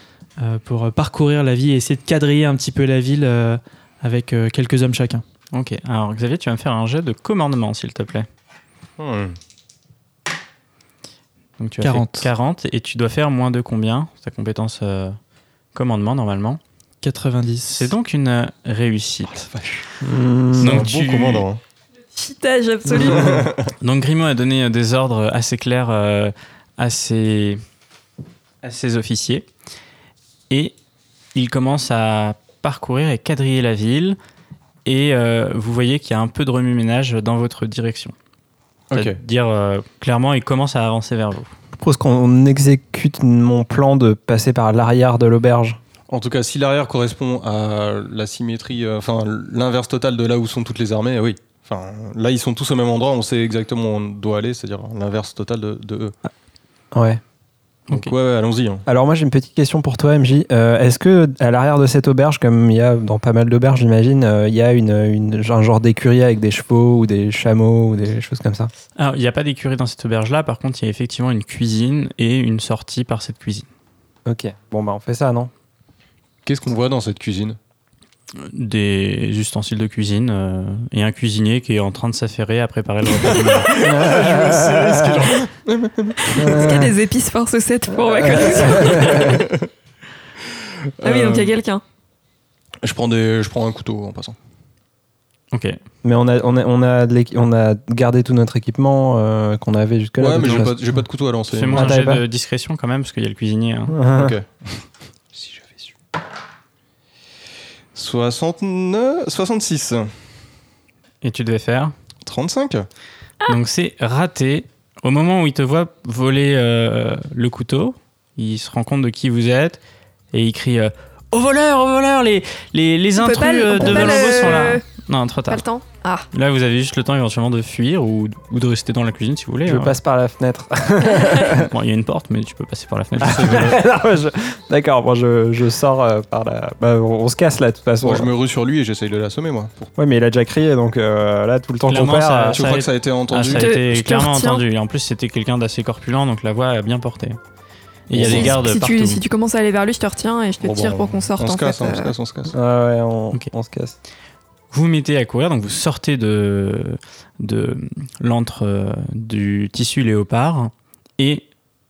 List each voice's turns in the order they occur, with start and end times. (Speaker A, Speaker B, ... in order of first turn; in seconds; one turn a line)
Speaker A: 0.4-5.2
Speaker B: 5.5-8.3
Speaker C: 9.0-9.4
Speaker B: 11.6-15.2
Speaker A: 11.8-12.3
Speaker B: 15.7-16.6
Speaker A: 17.0-17.9
Speaker B: 17.7-19.5
Speaker C: 19.3-19.8
Speaker D: 20.0-20.9
Speaker C: 20.6-21.6
Speaker B: 20.6-21.4
Speaker E: 22.1-23.5
Speaker C: 22.9-23.7
Speaker D: 23.1-23.4
Speaker B: 23.8-27.6
Speaker B: 28.6-29.4
Speaker B: 30.5-30.8
Speaker B: 31.3-34.2
Speaker B: 34.8-38.1
Speaker C: 38.9-39.2
Speaker B: 38.9-41.5
Speaker D: 41.7-45.8
Speaker C: 46.1-56.1
Speaker D: 56.9-57.2
Speaker C: 57.9-58.8
Speaker D: 58.9-68.7
Speaker B: 69.0-73.7
Speaker D: 74.2-75.5
Speaker C: 76.5-77.6
Speaker B: 78.4-83.8
Speaker C: 83.2-86.7
Speaker D: 83.7-85.3
Speaker E: 86.2-89.4
Speaker D: 86.3-86.9
Speaker D: 88.0-89.4
Speaker C: 88.3-89.7
Speaker C: 91.0-91.5
Speaker E: 91.0-91.8
Speaker C: 92.8-94.3
Speaker B: 95.5-95.8
Speaker D: 96.0-101.0
Speaker C: 100.2-102.0
Speaker B: 101.5-104.0
Speaker D: 101.7-102.2
Speaker D: 103.9-104.3
Speaker C: 104.1-104.5
Speaker C: 105.3-105.8
Speaker C: 107.9-110.1
Speaker B: 111.2-111.9
Speaker C: 112.2-112.9
Speaker B: 113.5-119.8
Speaker B: 120.3-125.6
Speaker E: 123.2-124.8
Speaker E: 125.5-126.3
Speaker B: 126.3-129.9
Speaker D: 129.7-131.7
Speaker B: 131.4-133.7
Speaker D: 133.2-138.3
Speaker C: 133.2-133.8
Speaker C: 138.0-139.9
Speaker D: 140.0-142.7
Speaker B: 141.8-147.4
Speaker C: 142.5-143.8
Speaker E: 143.5-144.6
Speaker B: 148.1-149.2
Speaker C: 148.1-148.6
Speaker E: 148.2-152.1
Speaker C: 150.6-152.5
Speaker D: 152.5-153.9
Speaker B: 154.7-161.5